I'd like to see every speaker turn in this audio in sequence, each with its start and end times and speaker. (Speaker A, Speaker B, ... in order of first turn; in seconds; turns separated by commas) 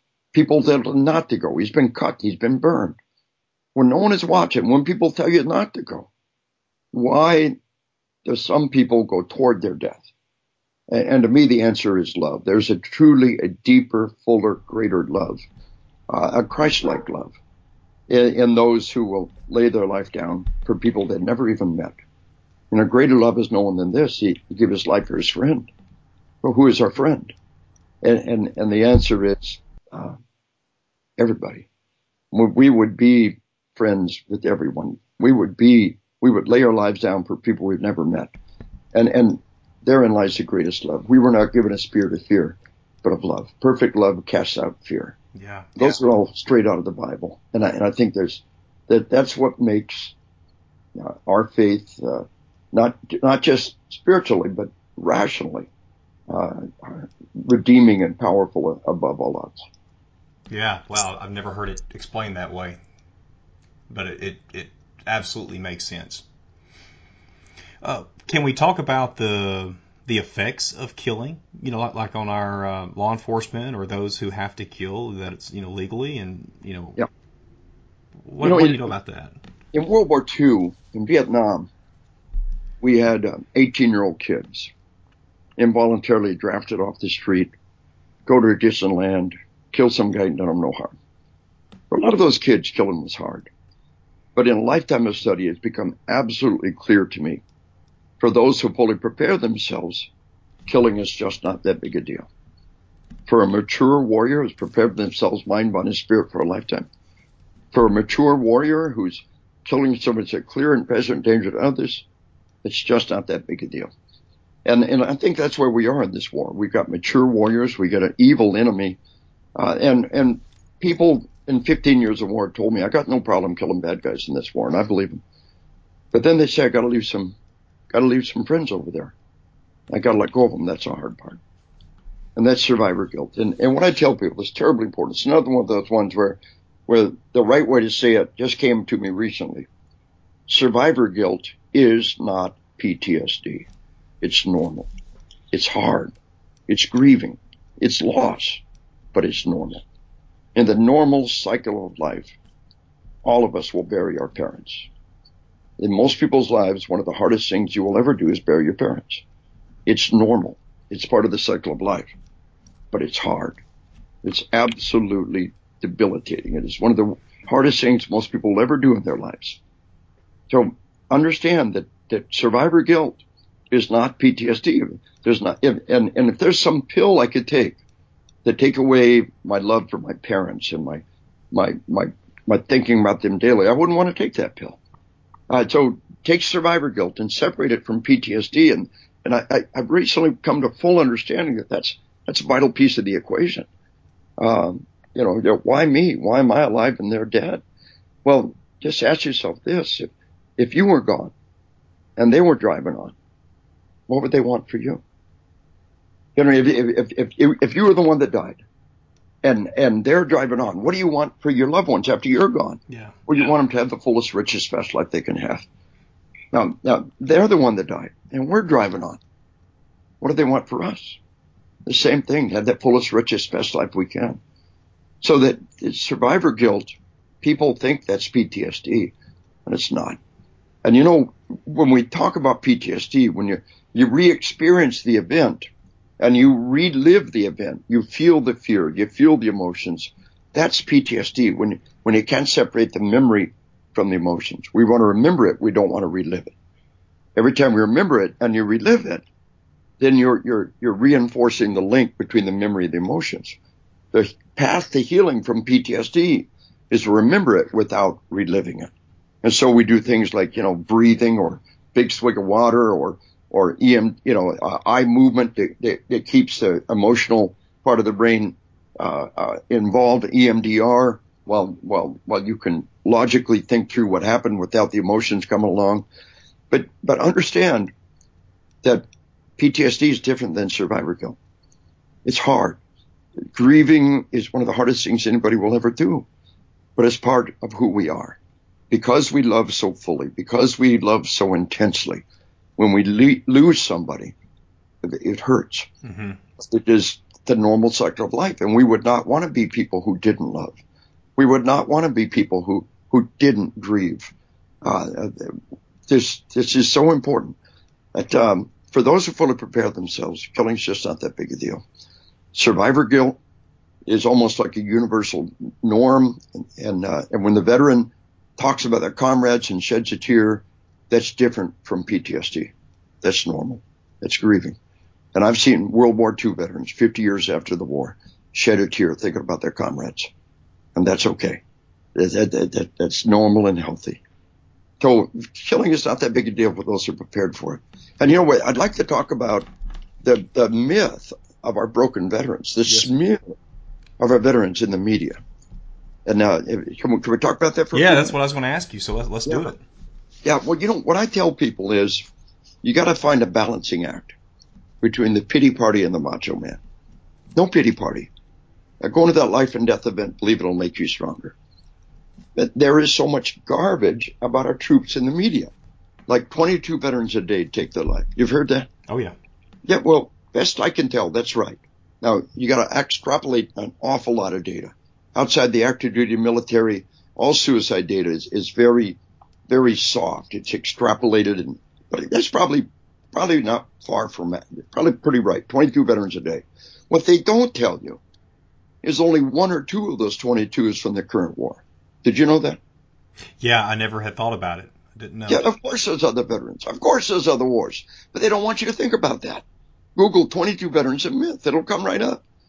Speaker A: 0.3-3.0, Speaker A: 3.8-6.1, Speaker A: 6.9-7.6, Speaker A: 8.3-10.1, Speaker A: 10.9-15.5, Speaker A: 16.1-17.4, Speaker A: 18.1-22.0, Speaker A: 22.7-25.7, Speaker A: 26.4-27.3, Speaker A: 28.0-30.2, Speaker A: 31.2-31.7, Speaker A: 32.3-38.3, Speaker A: 38.9-45.2, Speaker B: 45.4-46.0, Speaker A: 45.8-50.1, Speaker A: 51.0-55.7, Speaker A: 56.3-59.6, Speaker B: 60.5-62.8, Speaker B: 63.9-66.2, Speaker B: 67.8-77.0, Speaker B: 78.3-79.4, Speaker A: 78.4-78.9, Speaker A: 79.7-81.7, Speaker A: 82.8-84.7, Speaker A: 85.6-87.5, Speaker A: 88.3-90.9, Speaker A: 91.9-93.5, Speaker A: 94.3-97.4, Speaker A: 98.2-100.1, Speaker A: 100.7-102.3, Speaker A: 103.3-106.9, Speaker A: 107.7-112.0, Speaker A: 112.6-113.9, Speaker A: 114.7-119.0, Speaker A: 119.6-125.2, Speaker A: 126.1-127.3, Speaker A: 127.9-129.2, Speaker A: 129.9-131.4, Speaker A: 132.4-139.7, Speaker A: 140.5-143.7, Speaker A: 144.2-144.9, Speaker A: 145.5-146.2, Speaker A: 146.7-148.6, Speaker A: 149.1-149.8, Speaker A: 150.6-152.4, Speaker A: 153.2-154.9, Speaker A: 155.8-159.2, Speaker A: 159.9-162.1, Speaker A: 162.9-163.6, Speaker A: 164.2-169.6, Speaker A: 170.5-177.8, Speaker A: 178.4-184.8, Speaker A: 185.5-193.7, Speaker A: 194.4-197.6, Speaker A: 198.2-201.3, Speaker A: 202.2-203.2, Speaker A: 204.1-205.0, Speaker A: 206.4-208.6, Speaker A: 209.4-215.7, Speaker B: 212.9-213.2, Speaker A: 216.5-219.2, Speaker A: 220.2-221.2, Speaker A: 221.9-224.4, Speaker A: 225.2-229.1, Speaker A: 229.7-230.2, Speaker A: 230.8-235.7, Speaker A: 236.2-246.5, Speaker A: 247.4-249.2, Speaker A: 250.0-253.6, Speaker A: 254.1-258.9, Speaker A: 259.4-276.1, Speaker A: 276.7-277.9, Speaker A: 279.6-281.4, Speaker A: 282.2-282.8, Speaker A: 283.5-286.3, Speaker A: 287.0-288.4, Speaker A: 288.9-292.2, Speaker A: 292.8-294.3, Speaker A: 295.0-295.9, Speaker B: 296.0-296.4, Speaker A: 296.6-300.8, Speaker A: 301.4-304.3, Speaker A: 304.8-307.6, Speaker A: 308.1-311.8, Speaker A: 312.5-313.4, Speaker A: 314.1-324.8, Speaker A: 325.4-330.3, Speaker A: 331.0-331.6, Speaker A: 332.1-334.2, Speaker A: 335.0-339.7, Speaker A: 340.2-343.6, Speaker A: 344.2-345.4, Speaker A: 346.3-348.3, Speaker B: 347.9-349.8, Speaker A: 350.4-352.2, Speaker A: 352.8-354.3, Speaker A: 355.0-356.8, Speaker A: 357.6-358.3, Speaker A: 359.0-361.6, Speaker A: 362.6-365.7, Speaker A: 366.3-368.9, Speaker B: 369.1-369.4, Speaker A: 369.9-388.2, Speaker A: 389.0-392.8, Speaker B: 393.6-395.7, Speaker A: 395.5-399.6, Speaker A: 400.2-402.4